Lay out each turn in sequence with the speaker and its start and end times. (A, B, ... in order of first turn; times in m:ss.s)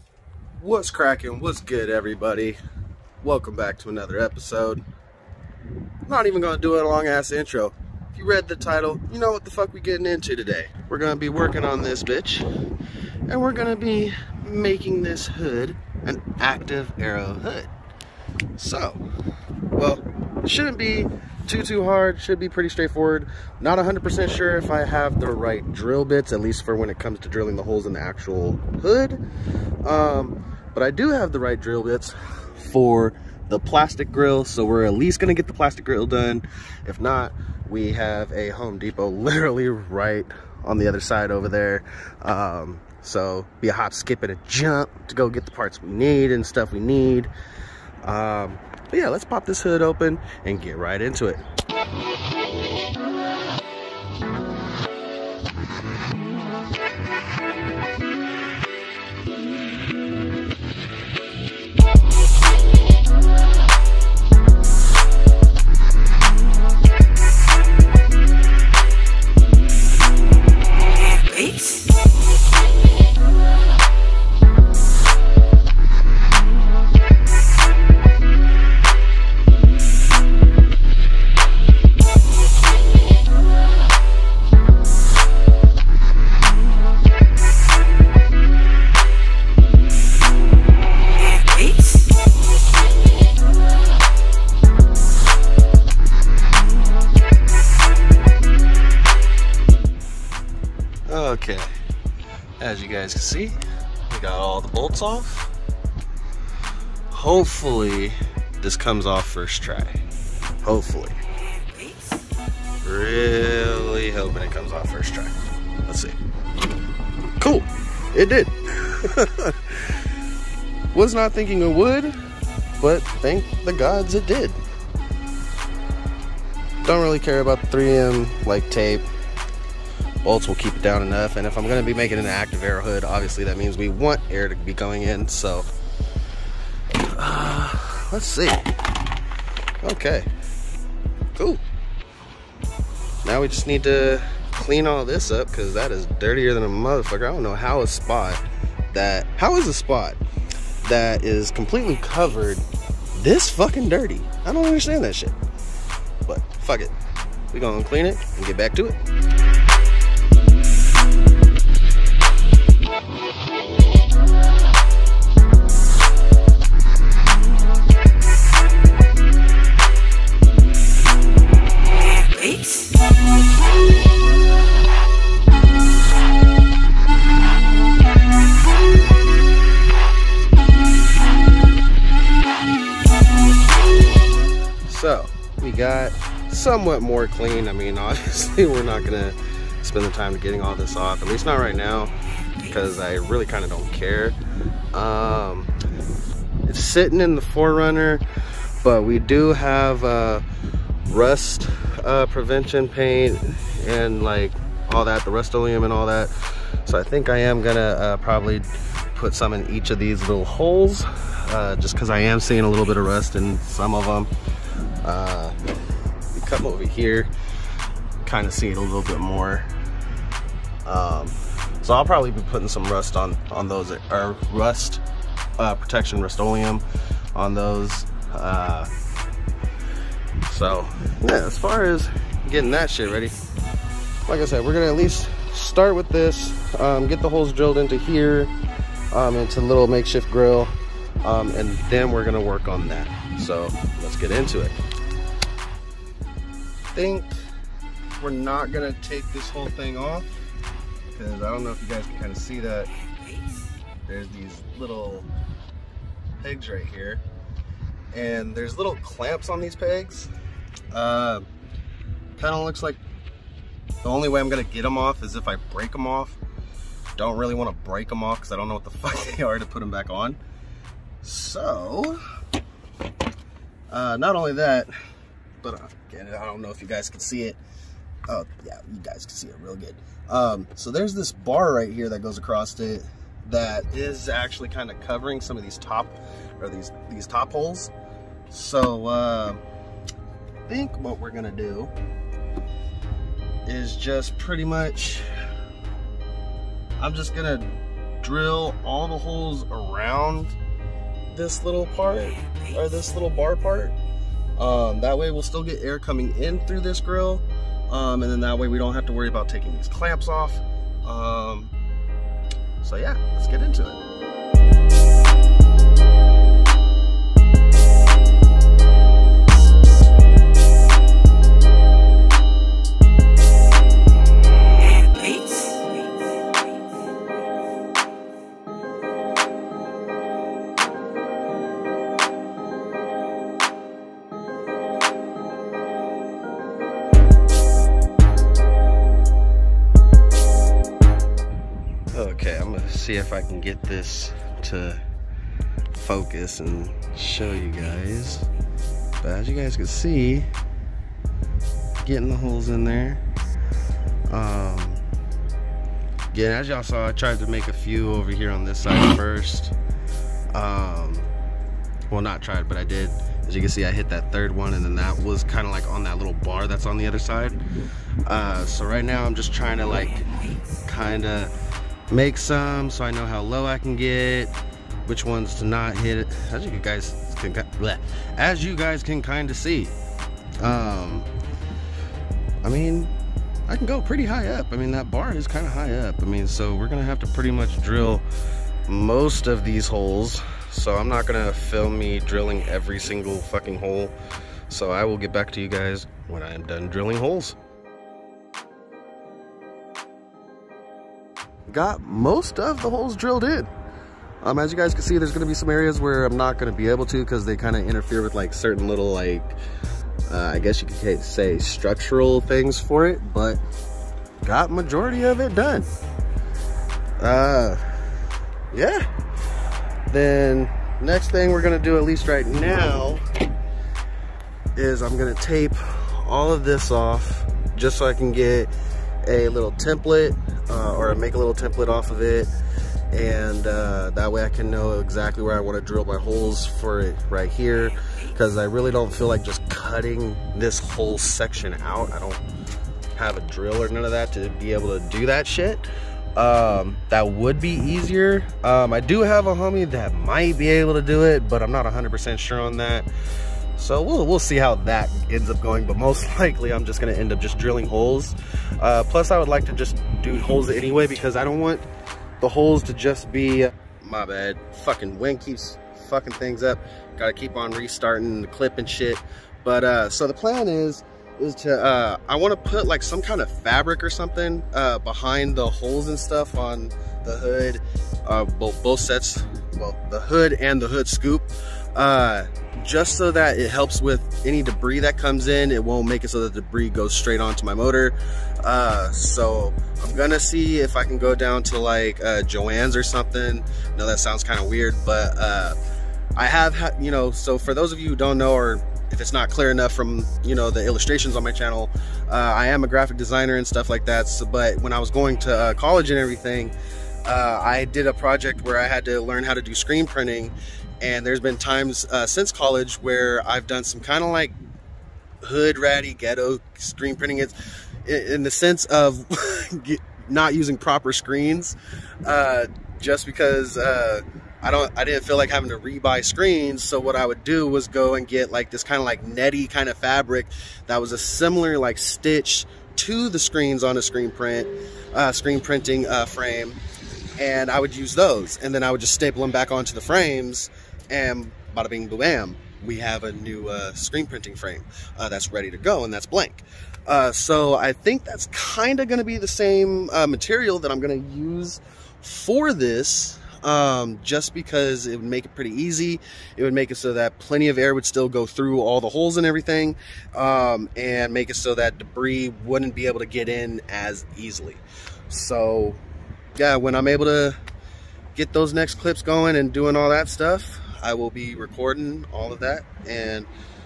0:00.5-0:02.6 A
0:03.2-0:04.8 A
0:06.0-0:12.5 A
0:13.2-0:17.7 A
0:18.6-0:19.0 A
0:19.7-0:29.2 A
0:29.8-0:47.3 A
0:48.0-0:51.4 A
1:41.1-1:41.7 A
1:42.6-1:45.5 A
1:47.1-1:50.0 A
1:50.6-1:51.2 A
1:52.8-1:56.2 A
1:57.4-2:00.0 A
2:00.9-2:02.2 A
2:02.8-2:04.6 A
2:06.8-2:09.1 A
2:10.2-2:15.7 A
2:17.0-2:18.7 A
2:19.8-2:20.3 A
2:21.3-2:21.6 A
2:23.2-2:30.2 A
2:30.8-2:35.4 A
2:36.2-2:36.9 A
2:37.5-2:39.0 A
3:04.8-3:12.1 A
3:12.6-3:14.4 A
3:14.9-3:15.7 A
3:16.6-3:18.2 A
3:18.8-3:20.4 A
3:21.0-3:34.3 A
3:35.0-3:35.6 A
3:36.3-3:37.3 A
3:38.2-3:39.7 A
3:40.8-3:45.0 A
3:45.6-3:48.9 A
3:50.4-3:53.4 A
3:54.3-3:58.5 A
3:59.1-4:04.8 A
4:06.9-4:07.3 A
4:08.2-4:10.3 A
4:11.1-4:12.9 A
4:14.0-4:15.3 A
4:16.4-4:17.2 A
4:18.1-4:20.3 A
4:20.9-4:21.5 A
4:22.4-4:23.0 A
4:24.0-4:26.4 A
4:27.2-4:30.4 A
4:31.2-4:32.2 A
4:33.9-4:34.9 A
4:35.6-4:37.6 A
4:38.3-4:47.9 A
4:48.5-4:49.6 A
4:50.6-4:51.9 A
4:53.6-4:55.2 A
4:57.0-5:00.5 A
5:01.3-5:04.0 A
5:04.6-5:11.7 A
5:12.8-5:14.0 A
5:42.1-5:45.0 A
5:45.9-5:48.5 A
5:49.2-5:50.5 A
5:52.0-5:53.2 A
5:54.3-5:55.0 A
5:56.3-5:59.7 A
6:00.5-6:01.3 A
6:02.1-6:07.6 A
6:08.2-6:10.3 A
6:10.8-6:11.5 A
6:12.1-6:14.5 A
6:15.0-6:19.9 A
6:20.6-6:21.3 A
6:22.6-6:23.1 A
6:23.7-6:28.2 A
6:28.9-6:34.1 A
6:34.7-6:37.6 A
6:41.7-6:43.7 A
6:44.4-6:49.6 A
6:50.3-6:53.6 A
6:54.4-6:55.9 A
6:57.2-6:57.8 A
6:58.7-6:59.1 A
7:00.1-7:03.2 A
7:04.7-7:08.7 A
7:09.2-7:12.5 A
7:13.1-7:22.4 A
7:23.1-7:33.1 A
7:33.8-7:41.9 A
7:42.4-8:15.8 A
8:16.4-8:26.7 A
8:27.2-8:34.5 A
8:35.4-8:56.8 A
8:57.4-9:26.0 A
9:26.5-9:27.6 A
9:28.3-9:33.5 A